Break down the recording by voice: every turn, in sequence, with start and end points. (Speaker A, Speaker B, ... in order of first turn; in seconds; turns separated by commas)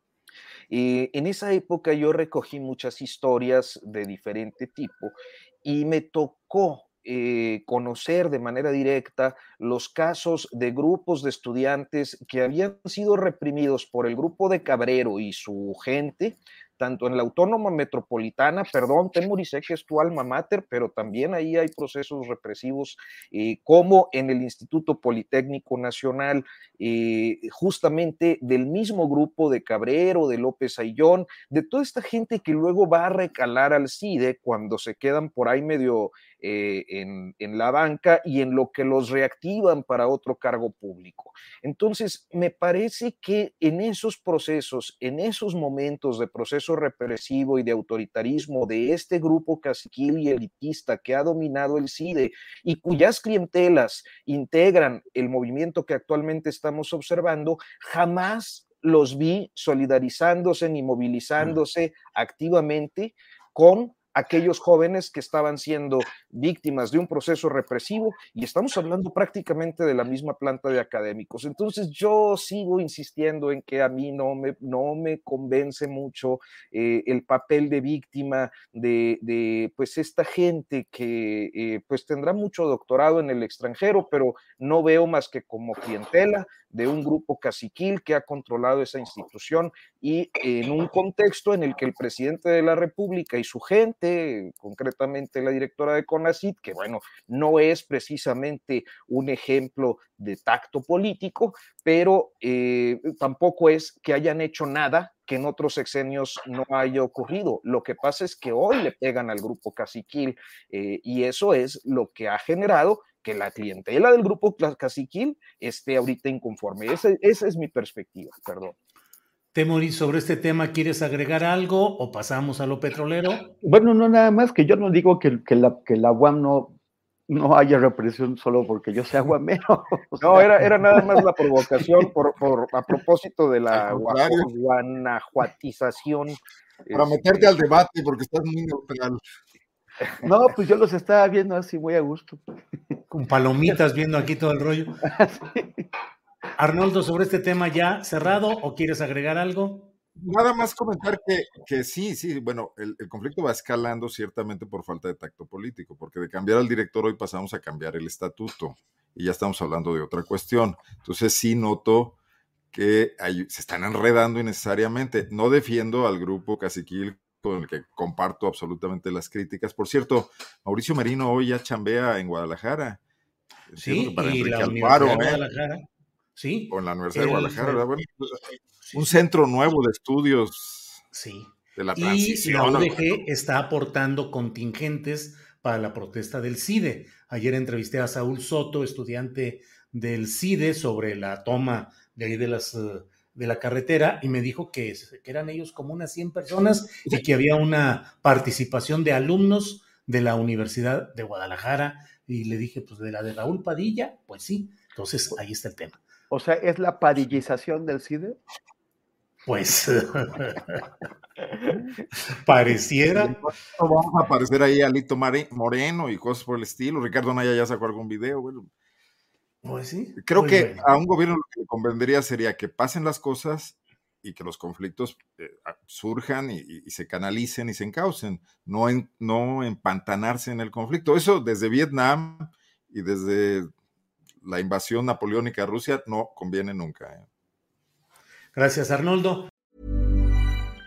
Speaker A: 0.7-118.8, Speaker B: 119.5-123.5, Speaker C: 123.6-126.8, Speaker C: 127.3-131.3, Speaker A: 130.2-137.5, Speaker D: 133.7-134.5, Speaker D: 136.9-139.2, Speaker C: 140.2-142.4, Speaker B: 143.1-145.0, Speaker C: 145.1-145.8, Speaker B: 146.6-149.9, Speaker D: 150.2-162.2, Speaker D: 162.7-173.0, Speaker D: 173.7-175.4, Speaker B: 173.8-177.9, Speaker D: 176.7-178.4, Speaker B: 178.8-179.2, Speaker D: 178.9-181.0, Speaker B: 181.1-206.0, Speaker D: 181.8-183.2, Speaker C: 206.3-208.4, Speaker B: 209.5-210.9, Speaker B: 212.4-213.4, Speaker D: 213.1-218.7, Speaker B: 219.6-220.9, Speaker D: 220.2-233.7, Speaker D: 234.4-237.3, Speaker B: 238.6-239.5